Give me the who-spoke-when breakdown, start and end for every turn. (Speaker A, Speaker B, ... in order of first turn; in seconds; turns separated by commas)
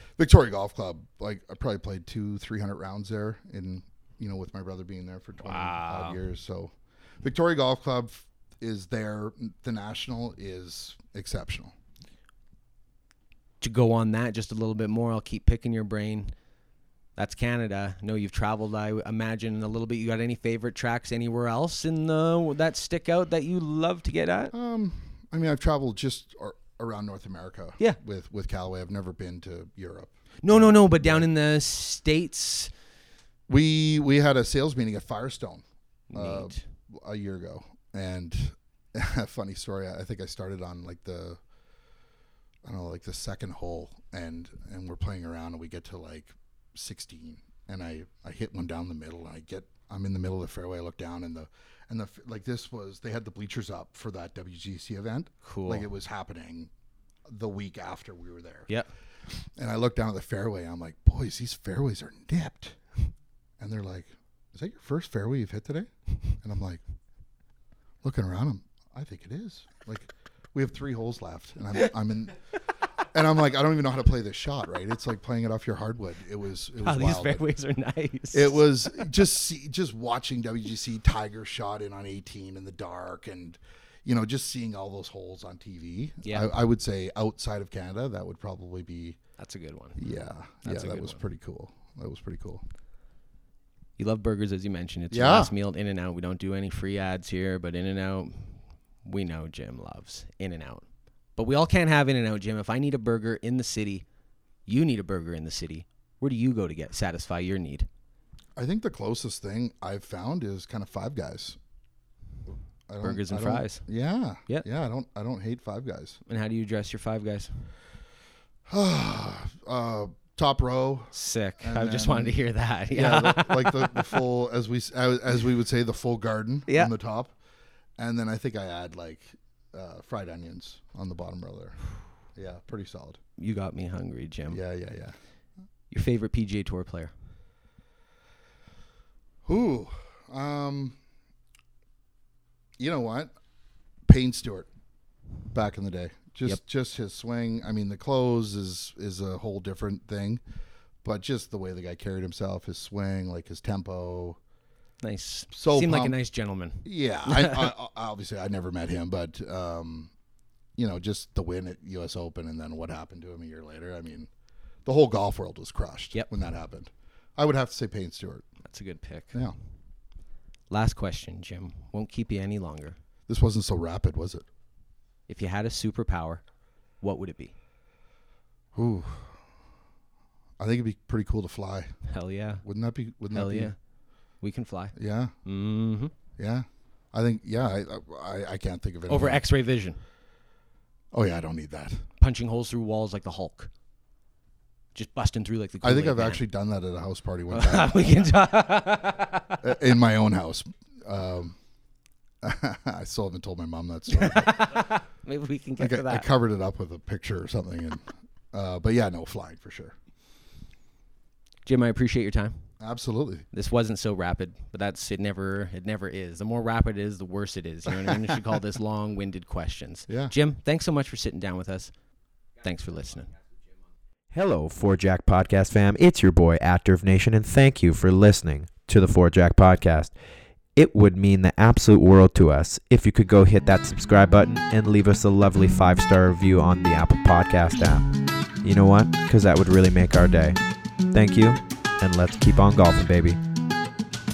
Speaker A: 0.2-11.7, Speaker B: 5.4-6.2, Speaker B: 13.6-16.3, Speaker B: 17.2-24.5, Speaker A: 24.5-31.3, Speaker B: 30.4-32.7, Speaker A: 33.5-41.4, Speaker B: 36.1-36.6, Speaker A: 42.6-56.7, Speaker B: 55.4-55.9, Speaker A: 57.3-58.7, Speaker A: 59.6-62.8, Speaker A: 63.6-65.9, Speaker A: 66.4-66.8, Speaker A: 68.0-72.4, Speaker A: 73.0-77.5, Speaker B: 76.8-79.1, Speaker A: 78.3-89.2, Speaker B: 86.2-86.5, Speaker B: 89.4-90.0, Speaker A: 90.0-92.6, Speaker B: 90.6-91.2, Speaker B: 94.0-100.8, Speaker A: 95.1-95.5, Speaker B: 101.4-104.0, Speaker B: 104.7-107.9, Speaker A: 108.6-111.6, Speaker A: 112.9-116.2, Speaker B: 113.0-113.8, Speaker B: 116.3-117.7, Speaker A: 118.7-122.4, Speaker B: 121.1-124.2, Speaker A: 122.9-127.3, Speaker B: 126.7-126.9, Speaker A: 128.0-133.2, Speaker B: 133.4-134.6, Speaker A: 134.5-135.2, Speaker B: 135.9-137.1, Speaker A: 139.4-141.0, Speaker A: 142.8-143.3, Speaker A: 144.1-144.7, Speaker A: 145.5-150.4, Speaker A: 151.0-154.4, Speaker B: 155.0-157.7, Speaker A: 155.5-156.2, Speaker A: 156.8-160.1, Speaker A: 160.8-164.3, Speaker A: 164.8-168.4, Speaker B: 168.7-169.4, Speaker B: 170.7-173.0, Speaker A: 173.3-174.4, Speaker B: 175.3-176.4, Speaker B: 177.0-177.5, Speaker A: 178.8-179.4, Speaker A: 180.6-181.9, Speaker B: 182.1-182.7, Speaker A: 182.6-183.7, Speaker B: 183.3-183.8, Speaker B: 184.4-186.1, Speaker A: 185.0-185.3, Speaker A: 186.4-189.4, Speaker B: 189.1-190.0, Speaker A: 191.1-192.0, Speaker B: 192.2-193.7, Speaker B: 194.9-196.4, Speaker A: 195.8-198.0, Speaker B: 197.5-199.7, Speaker A: 199.6-201.6, Speaker A: 202.4-204.9, Speaker B: 204.1-206.3, Speaker A: 205.8-209.9, Speaker B: 211.7-212.7, Speaker A: 212.8-213.5, Speaker B: 213.5-221.9, Speaker A: 220.1-220.3, Speaker B: 222.6-223.3, Speaker C: 224.3-230.1, Speaker C: 230.8-238.1, Speaker C: 238.6-240.6, Speaker C: 241.1-243.4